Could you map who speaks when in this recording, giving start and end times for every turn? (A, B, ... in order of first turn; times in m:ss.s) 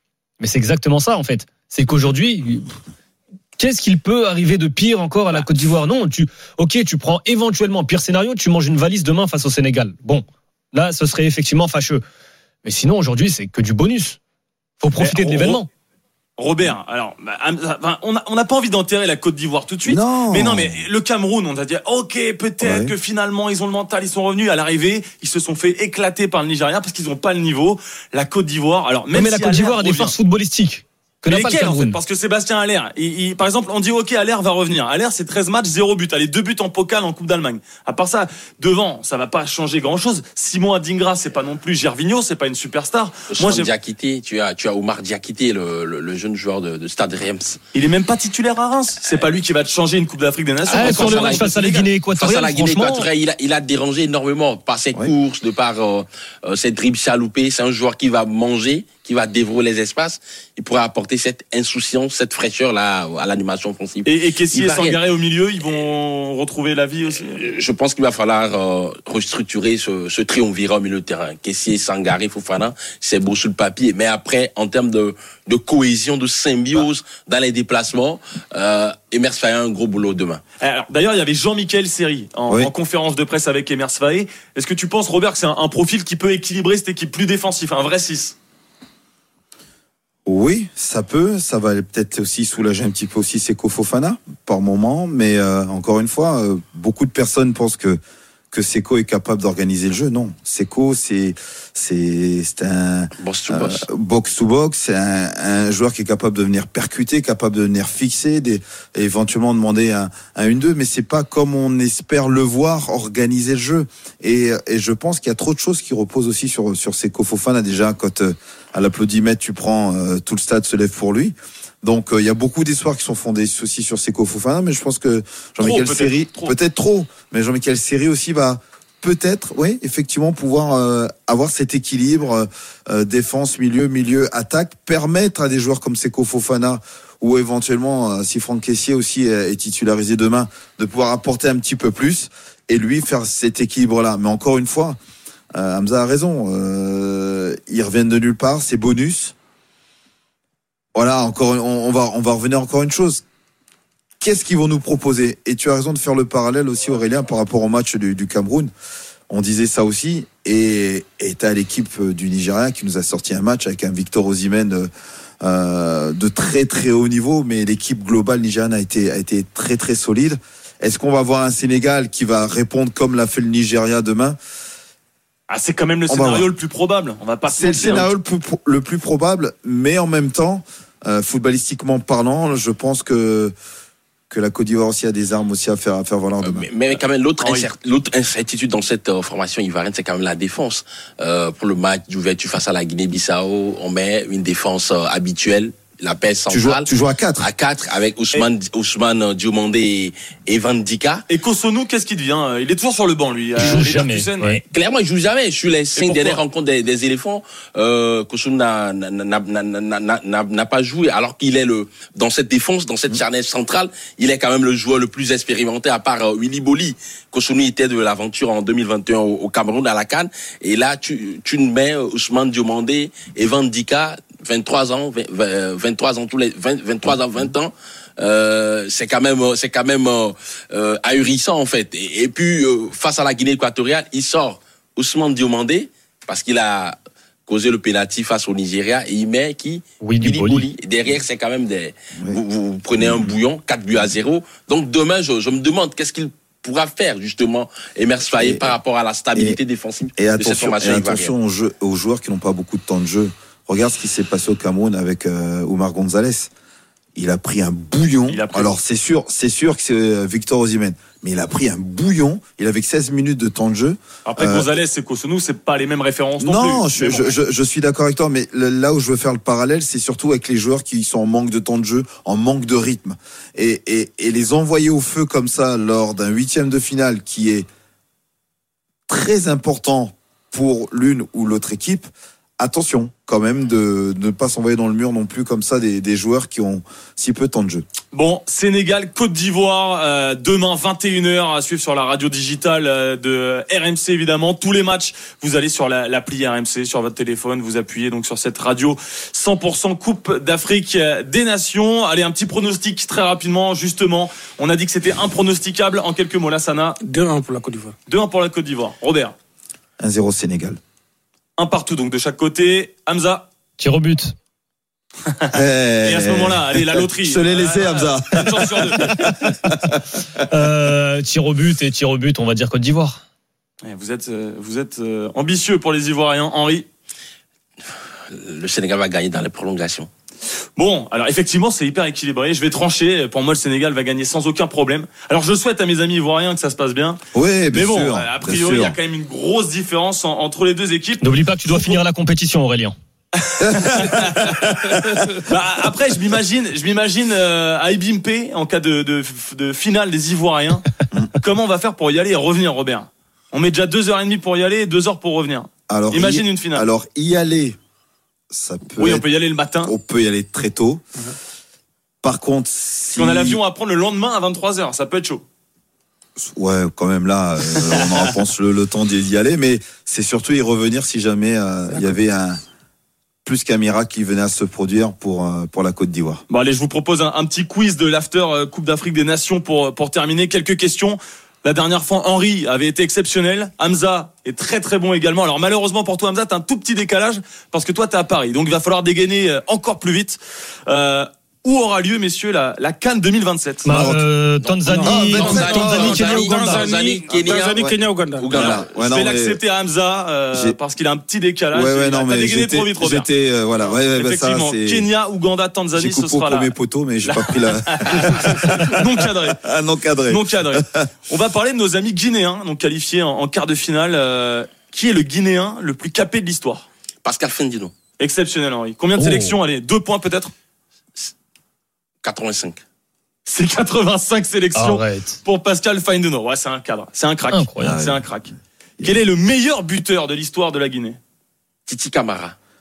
0:00.4-0:02.7 A
0:03.6-0:12.0 A
0:12.6-0:14.2 A
0:14.8-0:15.7 A
0:15.0-0:15.6 B
0:16.4-0:30.1 B
0:19.8-0:20.8 C
0:22.6-0:22.9 C
0:29.1-0:32.0 A
0:31.3-0:43.7 B
0:43.3-0:47.6 D
0:47.7-0:51.9 B
0:50.6-0:51.5 D
0:50.7-0:53.1 A
0:52.1-1:05.0 D
1:04.0-1:07.4 B
1:07.3-1:20.4 D
1:20.6-1:28.4 B
1:30.2-1:38.0 C
1:38.5-2:25.0 C
1:43.2-1:43.8 D
2:05.6-2:06.5 B
2:25.5-2:29.3 C
2:30.9-2:33.2 C
2:34.2-2:38.7 C
2:39.3-2:44.9 C
2:45.4-2:54.4 C
2:55.5-2:58.1 B
2:56.1-2:56.5 C
2:57.5-3:03.5 C
3:04.3-3:06.7 C
3:06.4-3:21.2 D
3:07.4-3:07.7 B
3:16.5-3:17.5 C
3:21.3-3:24.6 B
3:23.6-3:24.6 A
3:24.7-4:11.3 D
3:26.0-3:26.4 B
4:00.0-4:00.7 A
4:03.0-4:03.3 C
4:08.4-4:08.8 C
4:10.2-4:16.5 C
4:17.2-4:24.6 C
4:18.3-4:18.8 B
4:24.2-4:27.4 B
4:26.4-4:37.7 C
4:39.1-4:47.8 C
4:48.1-5:07.0 B
5:07.0-5:07.9 E
5:08.1-5:09.3 B
5:10.0-5:10.8 C
5:11.6-5:13.5 B
5:13.8-5:14.4 A
5:15.5-5:20.0 C
5:16.0-5:19.1 B
5:20.4-5:23.2 A
5:23.8-5:26.8 B
5:28.3-5:30.1 D
5:30.8-5:37.2 B
5:37.3-5:39.0 C
5:37.7-5:42.0 B
5:41.2-5:43.0 A
5:43.4-5:50.8 B
5:43.6-5:45.2 C
5:51.4-5:56.8 B
5:55.9-5:57.8 C
5:58.5-5:59.2 C
5:59.0-5:59.9 B
5:59.8-6:01.0 C
6:02.2-6:03.6 C
6:03.1-6:05.4 B
6:06.4-6:12.6 C
6:07.8-6:08.1 B
6:13.4-6:16.4 C
6:16.5-6:34.1 B
6:33.8-6:36.5 A
6:33.9-6:34.2 C
6:34.6-6:39.0 D
6:34.9-6:38.5 E
6:35.0-6:36.2 C
6:38.5-6:39.6 C
6:38.6-6:46.7 B
6:41.7-6:45.1 C
6:45.9-6:51.1 C
6:47.2-6:49.6 B
6:50.2-6:56.8 B
6:57.2-6:57.9 D
6:58.2-7:00.5 B
6:59.2-6:59.5 A
7:02.2-7:02.8 D
7:03.4-7:11.2 B
7:04.8-7:05.4 A
7:07.5-7:07.9 A
7:07.8-7:08.3 C
7:11.9-7:12.6 D